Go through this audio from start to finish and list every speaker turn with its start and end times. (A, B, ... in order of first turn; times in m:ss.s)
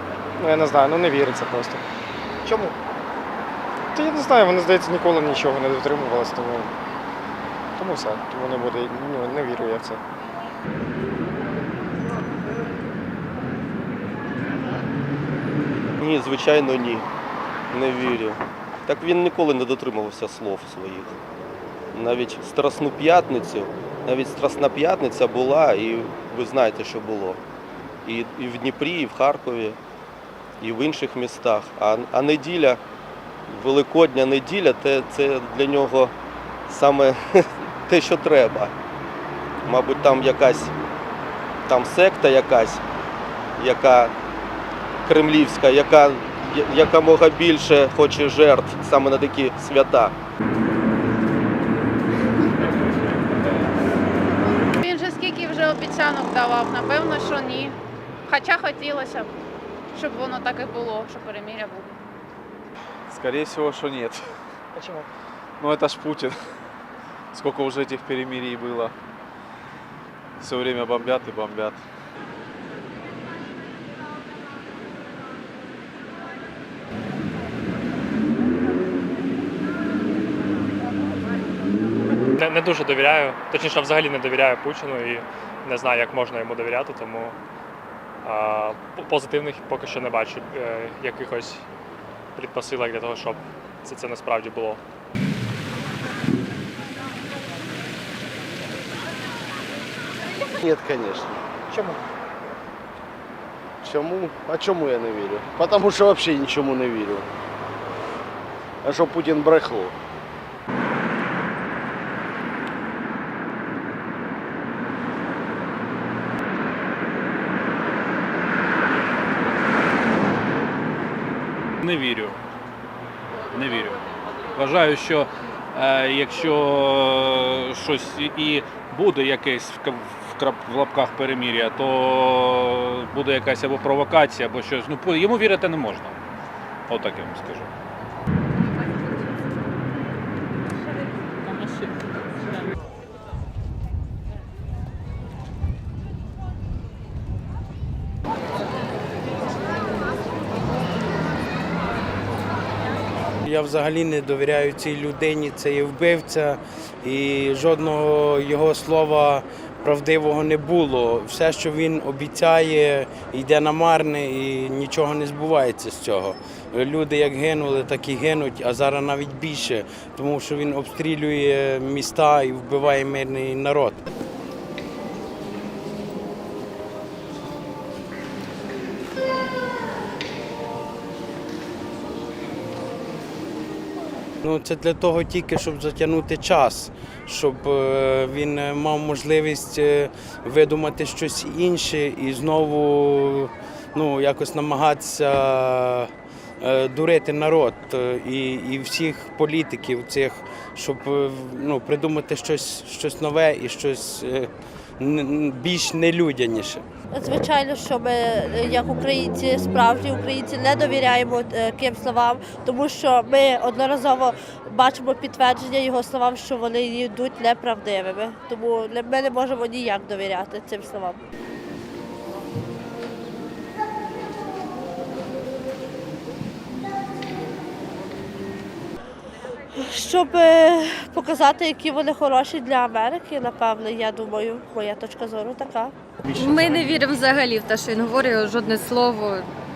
0:00.4-0:01.8 A
0:04.0-0:06.7 A
0:07.8-0:10.0 A
0:16.0-0:17.1 B
0:17.7-0:21.2 B
0:21.9-0:27.4 B
0:28.0-0:29.8 B
0:30.6-0:32.8 B
0:33.5-0:36.1 B
0:36.7-0:38.7 B
0:39.6-0:40.7 B
0:41.7-0:42.8 B
0:43.6-0:44.1 B
0:45.0-0:50.2 B
0:54.8-0:57.8 C
0:58.3-0:59.3 C
0:59.9-1:02.0 C
1:03.1-1:04.4 D
1:05.6-1:06.5 D
1:07.3-1:08.9 D
1:10.4-1:11.8 D
1:22.3-1:27.4 E
1:28.2-1:31.6 E
1:32.4-1:34.8 E
1:40.6-1:41.3 F
1:43.8-1:47.3 F
1:48.8-1:49.9 F
2:01.8-2:02.4 G
2:03.5-2:04.0 G
2:04.6-2:16.2 G
2:16.9-2:17.7 G
2:33.4-2:54.0 H
3:04.4-3:26.8 H
3:27.1-3:41.2 I
3:49.7-3:55.9 I
3:56.4-3:59.5 J